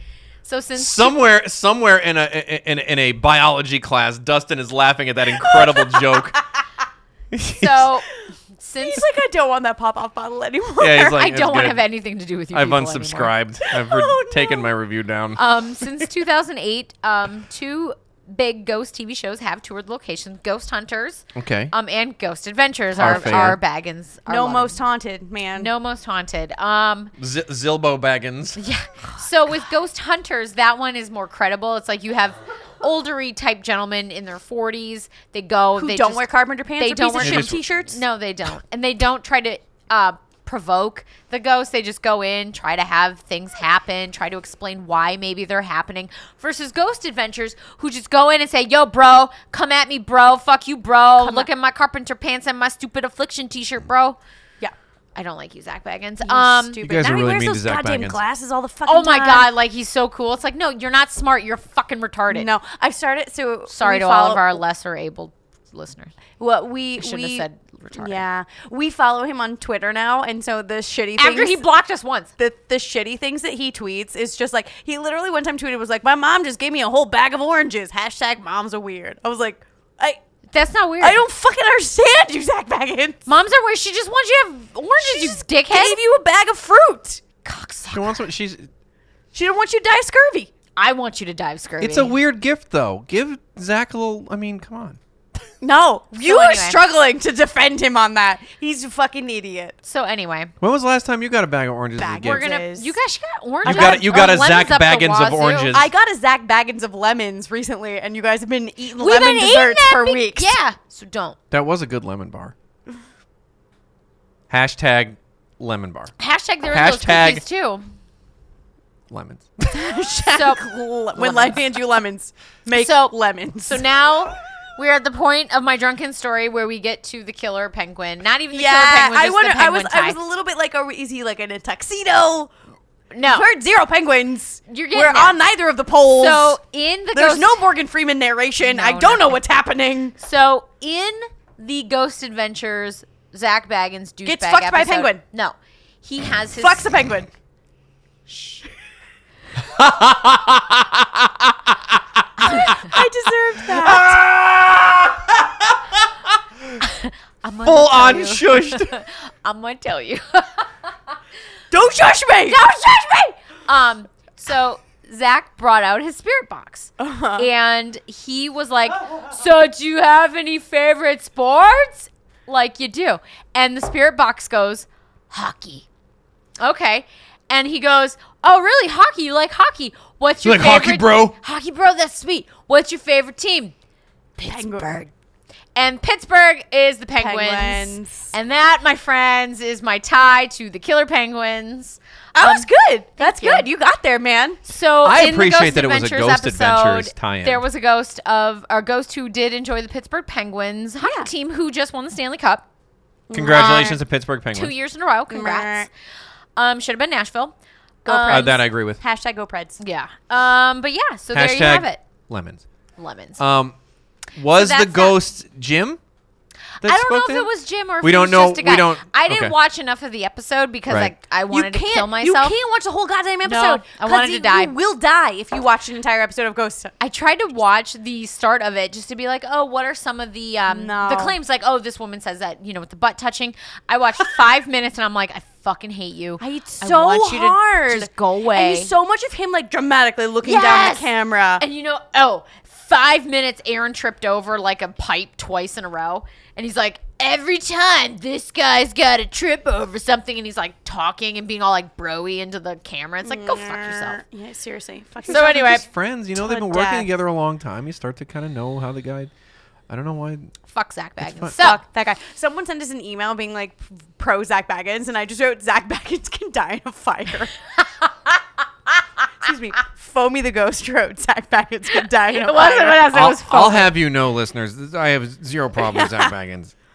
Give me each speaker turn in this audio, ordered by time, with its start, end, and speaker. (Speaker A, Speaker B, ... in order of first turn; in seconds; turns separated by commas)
Speaker A: 0.4-1.2, Speaker B: 0.7-6.4, Speaker C: 5.4-6.1, Speaker B: 7.3-7.9, Speaker A: 7.5-8.1, Speaker A: 8.6-9.1, Speaker C: 8.8-11.2, Speaker B: 10.8-11.8, Speaker A: 11.1-13.3, Speaker B: 12.5-16.1, Speaker C: 13.6-14.7, Speaker A: 15.3-24.8, Speaker B: 21.3-21.7, Speaker B: 22.9-23.6, Speaker C: 24.3-25.7, Speaker A: 25.6-27.1, Speaker B: 27.2-28.6, Speaker A: 28.6-54.2, Speaker C: 35.8-38.0, Speaker B: 37.2-37.6, Speaker C: 51.2-51.5, Speaker A: 55.1-56.8, Speaker C: 56.2-59.5, Speaker B: 56.8-58.2, Speaker A: 58.9-62.5, Speaker C: 62.3-64.6, Speaker A: 63.7-66.1, Speaker C: 66.4-71.6, Speaker A: 67.0-68.2, Speaker A: 71.2-72.3, Speaker C: 72.4-80.2, Speaker A: 80.5-81.2, Speaker C: 81.0-83.2, Speaker A: 83.2-86.0, Speaker C: 85.0-87.2, Speaker A: 87.4-88.2, Speaker B: 87.9-88.7, Speaker C: 89.3-90.5, Speaker A: 90.8-92.2, Speaker B: 91.8-95.0, Speaker C: 95.6-99.8, Speaker A: 96.2-96.8, Speaker A: 99.8-100.5, Speaker B: 100.6-102.4, Speaker C: 102.0-102.9, Speaker A: 102.2-105.8, Speaker B: 103.6-105.9, Speaker C: 103.6-104.3, Speaker C: 105.7-110.5, Speaker A: 109.0-111.4, Speaker B: 111.5-112.5, Speaker B: 114.5-116.1, Speaker A: 116.2-117.8, Speaker B: 116.7-117.4, Speaker B: 119.1-119.9, Speaker C: 119.7-123.8, Speaker A: 120.3-120.6, Speaker A: 121.2-121.7, Speaker A: 122.7-123.1, Speaker A: 123.6-130.2, Speaker C: 128.5-132.5, Speaker A: 133.1-133.5, Speaker C: 133.2-136.6, Speaker A: 134.7-135.4, Speaker A: 136.1-137.6, Speaker C: 137.1-140.1, Speaker A: 138.6-139.4, Speaker A: 140.2-146.9, Speaker C: 144.2-145.2, Speaker C: 146.6-147.3, Speaker A: 148.3-148.6, Speaker B: 149.6-152.7, Speaker A: 152.4-152.8, Speaker C: 152.4-154.2, Speaker B: 153.7-156.8, Speaker A: 156.8-160.9, Speaker B: 157.6-158.9, Speaker C: 161.7-162.7, Speaker A: 162.4-175.8, Speaker C: 167.0-167.5, Speaker A: 176.6-183.7, Speaker B: 180.4-181.3, Speaker A: 184.4-185.1, Speaker C: 184.4-184.9, Speaker A: 185.8-193.7, Speaker C: 187.2-188.3, Speaker C: 192.3-194.6, Speaker A: 194.7-202.7, Speaker B: 195.0-197.6, Speaker C: 201.0-201.3, Speaker C: 203.3-204.0, Speaker B: 203.3-204.7, Speaker A: 203.5-203.9, Speaker A: 204.5-205.9, Speaker C: 205.3-205.9, Speaker A: 206.6-207.5, Speaker C: 208.0-209.8, Speaker A: 208.1-208.6, Speaker B: 208.2-209.0, Speaker A: 209.8-212.0, Speaker B: 211.3-212.6, Speaker A: 213.0-213.4, Speaker B: 213.4-213.8, Speaker B: 214.3-216.0, Speaker A: 214.5-215.2, Speaker B: 216.8-217.5, Speaker A: 216.8-222.5, Speaker B: 218.0-219.5, Speaker B: 220.9-221.1, Speaker C: 221.5-226.9, Speaker A: 223.4-224.7, Speaker A: 227.0-238.9, Speaker C: 230.7-231.3, Speaker C: 236.4-241.6, Speaker A: 240.4-254.2, Speaker C: 253.2-255.8, Speaker A: 255.3-255.8, Speaker B: 255.3-259.3, Speaker C: 256.4-257.1, Speaker B: 259.9-260.5, Speaker A: 260.7-261.8, Speaker B: 261.2-261.5, Speaker C: 261.6-267.6, Speaker C: 269.4-273.1, Speaker A: 272.3-273.9, Speaker B: 273.1-276.7, Speaker C: 275.8-276.3